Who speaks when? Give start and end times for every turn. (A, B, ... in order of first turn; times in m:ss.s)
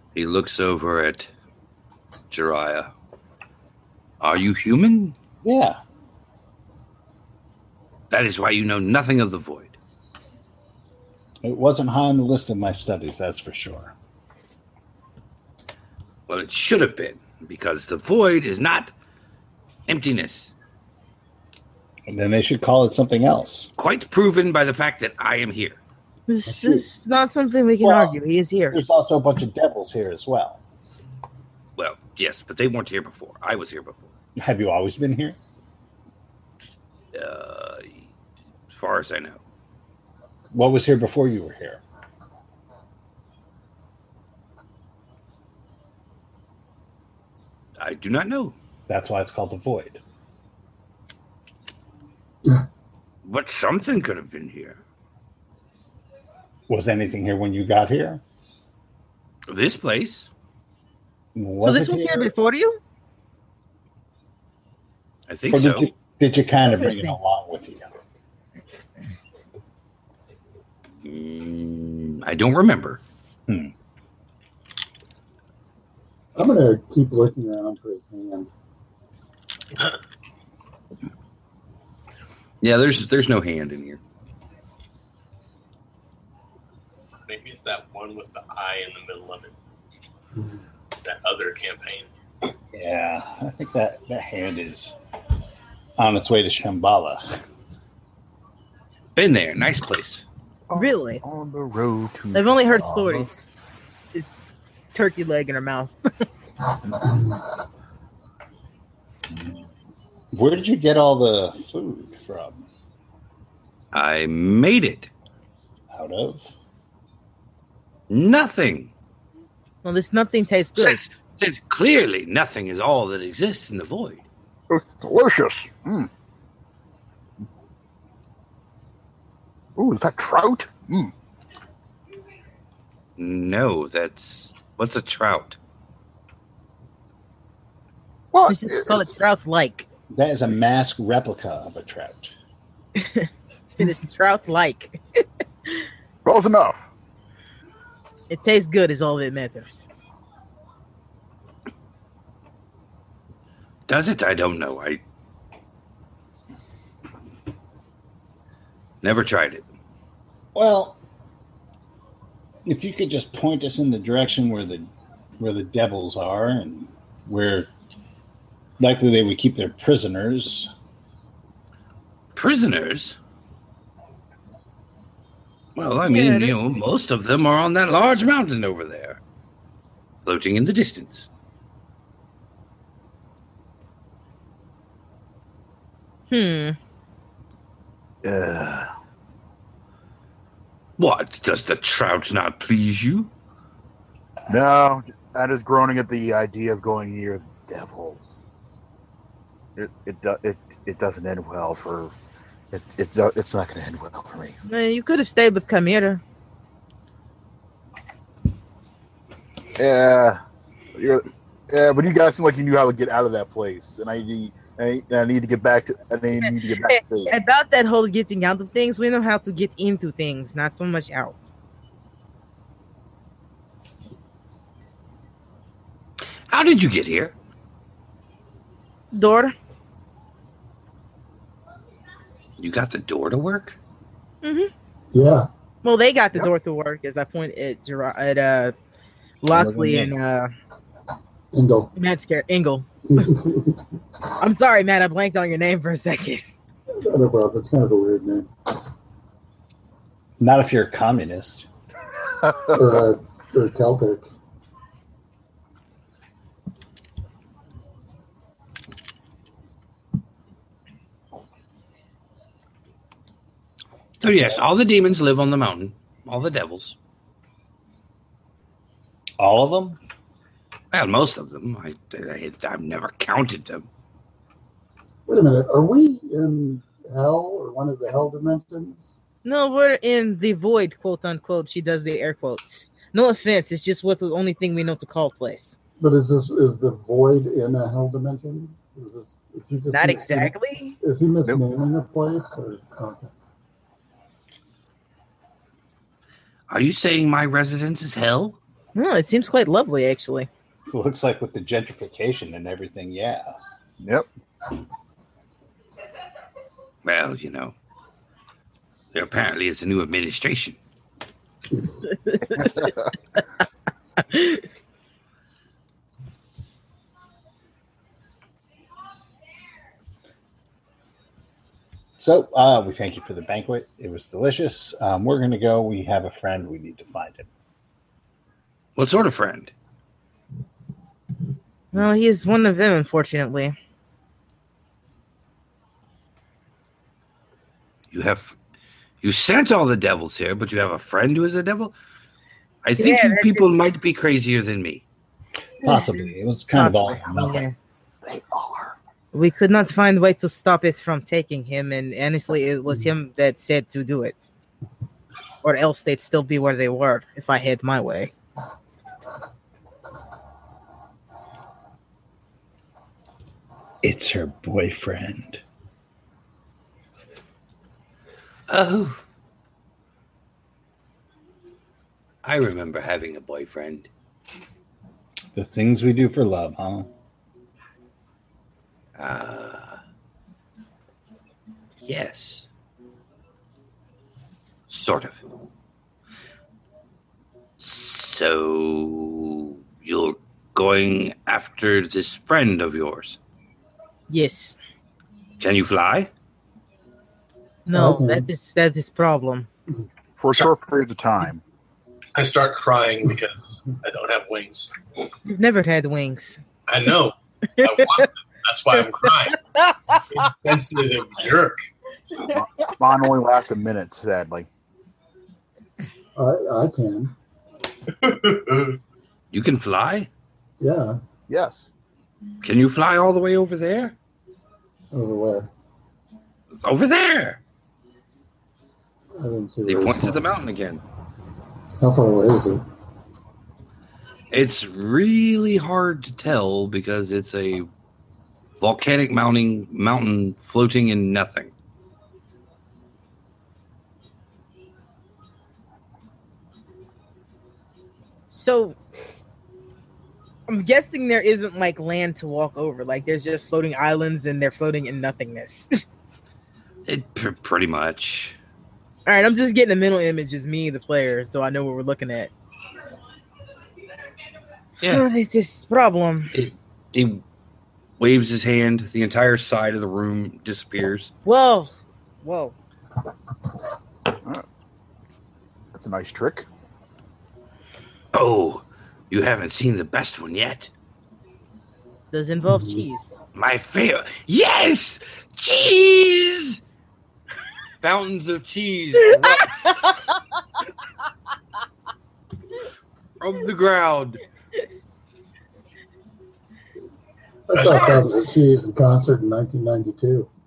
0:00.1-0:01.3 A
0:02.3-0:02.9 A
0:04.2-0:05.1 A
0:05.4-0:05.8 B
0:08.1-0:09.8 A
0:11.4-0:13.9 B
0:16.3-0:18.9 A
0:19.9-0:20.5 A
0:22.1-0:23.7 B
0:23.8-0:25.8 A
0:26.3-0:28.8 C
0:26.5-0:26.8 B
0:27.8-0:28.2 B
0:28.7-0:30.6 B
0:31.8-0:34.1 A
0:34.4-0:35.4 B
0:37.1-0:38.0 A
0:38.7-0:39.4 A
0:40.5-0:41.8 B
0:47.8-0:48.5 A
0:48.9-0:50.0 B
0:53.2-0:54.8 A
0:56.7-0:58.2 B
0:59.5-1:00.3 A
1:01.3-1:02.3 B
1:01.6-1:02.8 C
1:05.3-1:05.9 A
1:05.5-1:07.9 B
1:06.6-1:07.1 C
1:11.0-1:13.0 A
1:13.5-1:13.7 B
1:16.4-1:18.5 D
1:22.6-1:24.0 A
1:27.3-1:29.5 E
1:30.4-1:30.6 D
1:31.0-1:32.1 E
1:32.7-1:34.9 B
1:36.0-1:37.4 B
1:39.1-1:40.2 A
1:40.7-1:43.3 F
1:40.8-1:41.2 C
1:42.3-1:43.5 C
1:44.9-1:45.9 C
1:50.3-1:52.7 B
1:53.9-1:55.1 A
1:55.9-1:56.5 B
1:58.1-1:58.9 A
1:59.8-2:01.0 C
2:00.8-2:04.2 A
2:04.7-2:06.1 F
2:09.8-2:11.1 F
2:13.2-2:15.6 A
2:18.3-2:19.1 F
2:18.5-2:19.8 C
2:20.1-2:22.3 B
2:23.0-2:25.9 C
2:26.2-2:26.8 F
2:28.3-2:29.9 C
2:33.9-2:35.0 A
2:39.0-2:39.6 A
2:40.5-2:41.0 B
2:42.6-2:47.7 B
2:48.8-2:50.7 B
2:52.3-2:53.2 A
2:55.8-2:59.2 A
2:56.0-2:56.6 C
3:00.2-3:01.3 A
3:06.3-3:06.8 C
3:08.2-3:08.9 F
3:11.0-3:13.3 A
3:14.5-3:18.4 F
3:19.8-3:22.1 F
3:22.7-3:24.6 F
3:24.6-3:26.2 C
3:29.8-3:30.4 F
3:30.9-3:37.3 F
3:36.5-3:41.4 C
3:46.5-3:47.3 A
3:49.1-3:49.5 C
3:52.6-3:53.8 A
3:54.4-3:54.7 C
3:55.1-3:55.5 D
3:55.8-3:58.7 C
3:59.4-4:00.5 C
3:59.5-4:00.1 B
4:01.5-4:01.9 D
4:01.9-4:03.3 C
4:03.1-4:03.8 D
4:04.4-4:06.4 C
4:07.0-4:08.5 D
4:10.4-4:11.6 B
4:12.4-4:12.7 F
4:12.7-4:14.2 D
4:24.2-4:27.0 A
4:29.4-4:30.0 B
4:30.9-4:33.9 A
4:35.2-4:39.2 D
4:39.4-4:45.8 C
4:46.0-4:53.3 D
4:49.9-4:51.0 C
4:56.7-4:58.6 A
4:59.0-5:00.5 C
5:00.8-5:03.5 B
5:04.0-5:04.3 F
5:07.0-5:07.7 A
5:09.1-5:10.8 A
5:12.2-5:12.7 C
5:12.6-5:12.9 F
5:14.2-5:14.6 C
5:22.2-5:27.5 B
5:29.0-5:29.7 A
5:31.9-5:33.7 C
5:38.1-5:38.5 A
5:39.2-5:41.9 A
5:42.8-5:45.0 A
5:43.0-5:43.7 C
5:45.8-5:47.6 B
5:45.8-5:47.7 C
5:48.2-5:48.9 F
5:49.3-5:54.4 C
5:55.6-5:58.3 C
6:04.0-6:05.6 B
6:08.7-6:09.2 A
6:12.4-6:14.1 A
6:15.5-6:17.1 B
6:19.2-6:20.0 A
6:22.0-6:22.7 A
6:24.9-6:25.5 A
6:27.8-6:33.4 A
6:34.3-6:34.7 C
6:35.6-6:36.3 A
6:37.9-6:39.7 C
6:37.9-6:38.5 D
6:40.4-6:41.6 F
6:42.3-6:44.9 E
6:45.5-6:46.6 C
6:46.9-6:49.6 E
6:47.8-6:48.3 C
6:49.5-6:50.5 C
6:50.3-6:51.8 E
6:52.4-6:54.7 F
6:56.4-6:57.3 D
6:58.1-6:59.0 E
6:59.5-7:00.3 A
7:00.8-7:01.2 D
7:01.5-7:01.9 F
7:02.6-7:04.1 A
7:05.1-7:05.7 D
7:06.8-7:07.6 A
7:09.4-7:10.5 D
7:09.8-7:11.0 A
7:12.0-7:12.8 D
7:14.5-7:17.9 A
7:18.8-7:21.7 A
7:28.5-7:29.0 C
7:30.7-7:36.0 C
7:37.0-7:38.6 A
7:39.2-7:42.5 C
7:45.0-7:46.5 C
7:46.5-7:47.4 A
7:48.2-7:51.3 A
7:51.4-7:52.7 C
7:55.9-7:56.7 F
7:58.3-8:00.9 A
8:02.3-8:03.4 C
8:02.7-8:03.0 D
8:03.5-8:06.8 A
8:08.0-8:09.9 A
8:09.6-8:10.1 C
8:13.4-8:14.4 A
8:17.7-8:20.5 D
8:17.7-8:18.3 E